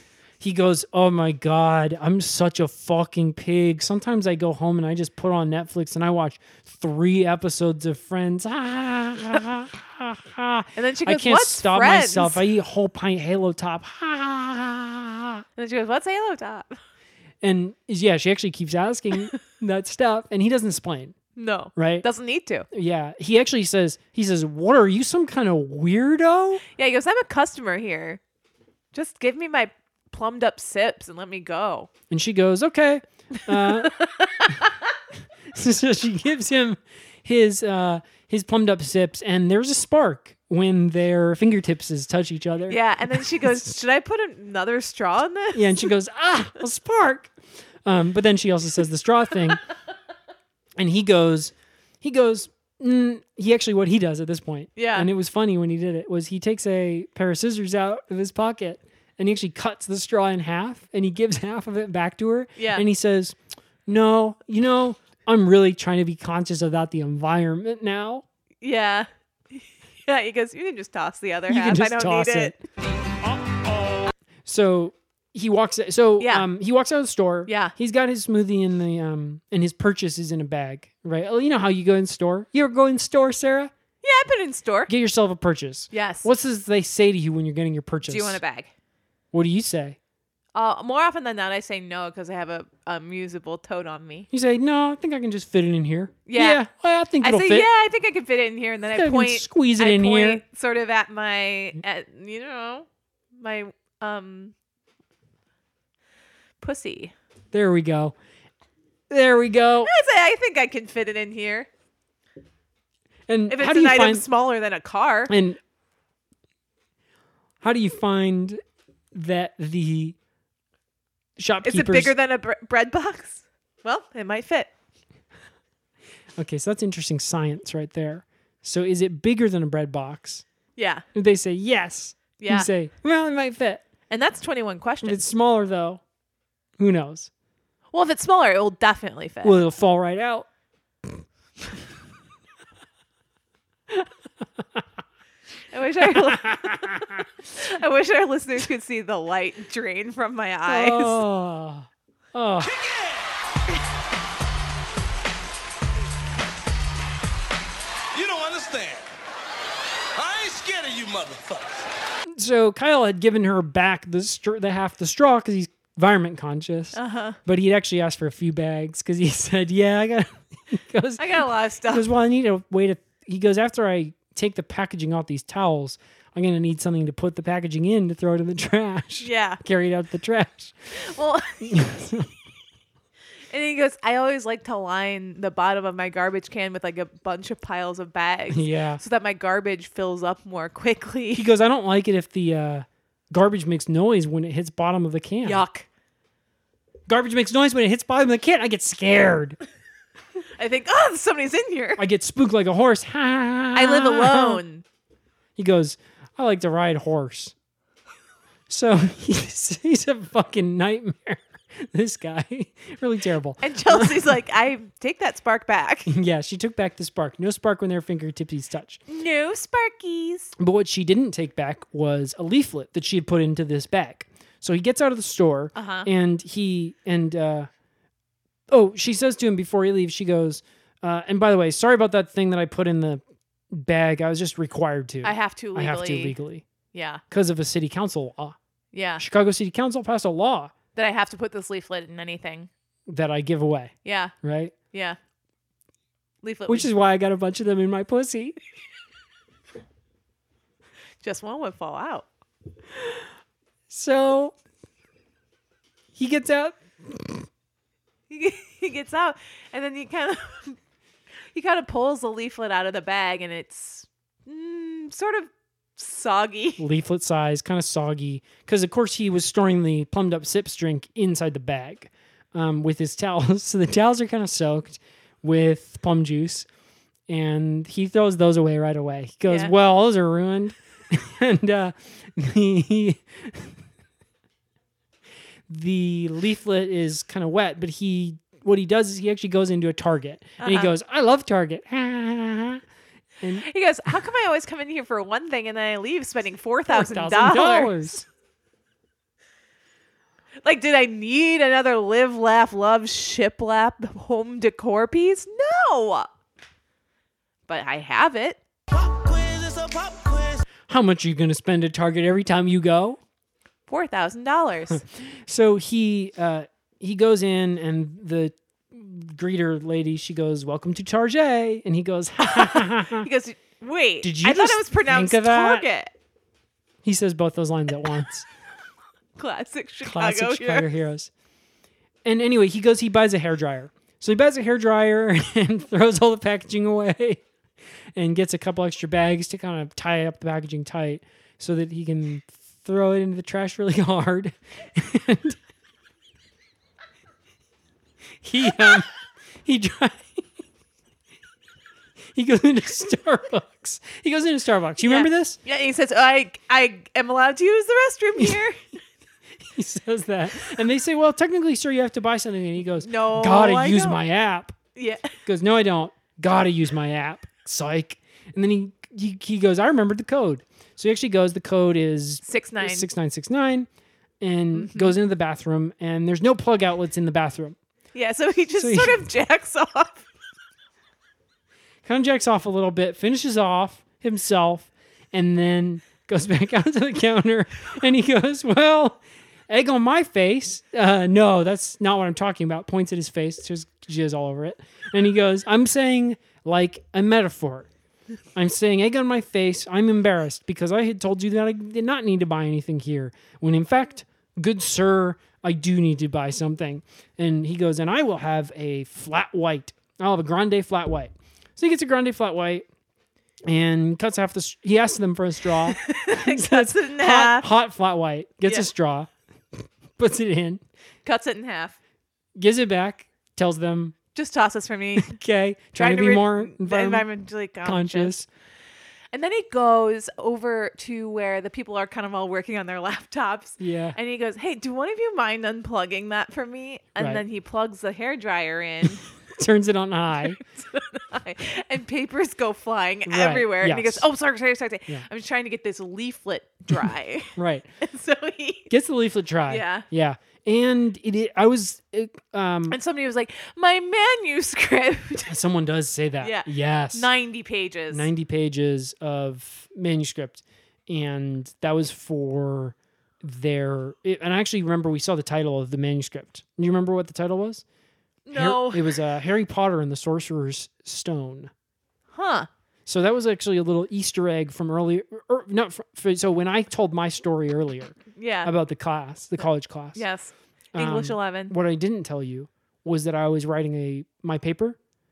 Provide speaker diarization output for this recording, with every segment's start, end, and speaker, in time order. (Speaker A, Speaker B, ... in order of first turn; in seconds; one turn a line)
Speaker A: 0.4-15.4
Speaker B: 10.8-12.4
Speaker B: 15.6-16.7
Speaker A: 17.4-21.1
Speaker B: 21.4-22.7
Speaker A: 21.8-22.1
Speaker A: 22.7-26.6
Speaker B: 26.7-28.2
Speaker B: 28.9-31.9
Speaker A: 32.1-34.0
Speaker B: 33.5-34.7
Speaker A: 35.5-43.7
Speaker B: 42.7-45.8
Speaker A: 45.5-49.6
Speaker A: 50.8-68.2
Speaker B: 54.8-55.1
Speaker B: 62.6-62.8
Speaker B: 68.6-72.6
Speaker A: 71.5-72.5
Speaker A: 74.4-83.7
Speaker B: 76.2-76.5
Speaker B: 77.5-77.7
Speaker B: 84.0-84.9
Speaker A: 84.9-88.4
Speaker B: 85.9-86.3
Speaker B: 88.1-88.7
Speaker A: 89.3-90.0
Speaker B: 90.5-94.3
Speaker A: 94.3-97.7
Speaker B: 96.3-96.6
Speaker B: 97.2-102.9
Speaker A: 98.9-100.4
Speaker B: 103.4-104.5
Speaker B: 106.6-107.1
Speaker A: 107.5-108.1
Speaker A: 109.1-109.9
Speaker B: 109.8-111.7
Speaker A: 113.3-114.2
Speaker B: 113.5-115.3
Speaker A: 115.3-115.6
Speaker A: 117.6-118.6
Speaker A: 119.1-120.2
Speaker A: 121.4-122.1
Speaker B: 121.6-124.7
Speaker A: 126.4-130.4
Speaker B: 130.8-131.0
Speaker A: 131.1-133.8
Speaker B: 132.4-132.7
Speaker B: 134.1-135.2
Speaker A: 135.0-136.0
Speaker A: 136.8-137.3
Speaker B: 137.9-139.6
Speaker A: 139.4-140.4
Speaker B: 145.7-151.2
Speaker A: 146.2-147.2
Speaker A: 150.7-152.7
Speaker C: 152.6-153.3
Speaker C: 158.1-159.1
Speaker C: 160.1-161.9
Speaker A: 162.4-171.2
Speaker B: 166.9-167.4
Speaker B: 171.2-172.1
Speaker A: 171.9-180.7
Speaker B: 179.2-179.6
Speaker B: 181.0-181.6
Speaker A: 181.6-182.3
Speaker B: 183.5-191.4
Speaker A: 188.5-189.0
Speaker A: 191.3-195.6
Speaker B: 195.4-195.8
Speaker A: 197.1-199.6
Speaker B: 200.6-202.0
Speaker A: 202.0-204.6
Speaker B: 203.7-204.8
Speaker A: 205.6-207.5
Speaker A: 208.7-214.3
Speaker B: 213.6-216.1
Speaker A: 216.1-219.0
Speaker B: 219.1-220.5
Speaker A: 220.6-227.7
Speaker B: 225.7-226.1
Speaker A: 228.7-233.2
Speaker A: 233.7-236.6
Speaker B: 235.2-236.3
Speaker B: 236.9-237.2
Speaker A: 237.3-238.6
Speaker B: 238.9-239.2
Speaker A: 239.2-240.7
Speaker B: 240.9-242.7
Speaker A: 243.1-244.7
Speaker B: 244.0-244.3
Speaker B: 244.9-245.2
Speaker B: 246.4-246.9
Speaker A: 246.7-248.6
Speaker B: 251.2-252.2
Speaker A: 253.9-254.5
Speaker A: 256.1-257.4
Speaker B: 258.3-260.8
Speaker B: 261.5-266.8
Speaker A: 266.8-276.7
Speaker A: 277.3-283.7
Speaker B: 279.5-279.7
Speaker A: 285.7-292.8
Speaker B: 290.6-290.9
Speaker A: 293.4-293.6
Speaker B: 293.6-298.1
Speaker A: 296.9-298.2
Speaker B: 300.6-306.3
Speaker B: 307.7-308.6
Speaker B: 309.1-310.6
Speaker A: 310.9-313.2
Speaker B: 313.9-315.0
Speaker A: 315.5-323.3
Speaker B: 322.4-326.1
Speaker A: 324.2-325.9
Speaker A: 327.0-328.4
Speaker B: 329.4-330.9
Speaker A: 330.0-331.3
Speaker A: 332.2-337.4
Speaker A: 338.1-345.6
Speaker A: 348.4-349.1
Speaker A: 349.6-350.4
Speaker A: 352.3-355.6
Speaker B: 355.0-358.8
Speaker A: 359.7-364.8
Speaker B: 363.0-364.2
Speaker B: 364.9-365.3
Speaker A: 365.4-373.9
Speaker B: 372.4-373.1
Speaker A: 374.4-377.8
Speaker B: 374.7-375.1
Speaker B: 378.1-380.2
Speaker A: 378.8-379.2
Speaker A: 382.0-397.9
Speaker A: 398.5-412.9
Speaker A: 413.7-419.3
Speaker B: 415.9-417.7
Speaker A: 420.2-420.8
Speaker B: 421.2-421.9
Speaker A: 422.6-424.1
Speaker B: 424.3-425.3
Speaker A: 425.1-427.2
Speaker B: 426.0-428.3
Speaker A: 427.8-428.4
Speaker B: 429.3-439.2
Speaker A: 433.8-434.2
Speaker A: 439.6-440.6
Speaker B: 440.4-448.9
Speaker A: 443.3-444.2
Speaker A: 447.6-447.9
Speaker A: 448.9-453.0
Speaker B: 449.7-450.0
Speaker B: 452.9-455.6
Speaker A: 455.5-457.3
Speaker B: 456.4-458.3
Speaker A: 458.1-467.8
Speaker B: 468.4-469.1
Speaker A: 468.5-471.7
Speaker B: 472.3-472.7
Speaker A: 473.1-480.2
Speaker B: 478.4-478.7
Speaker B: 480.1-481.7
Speaker A: 480.9-485.0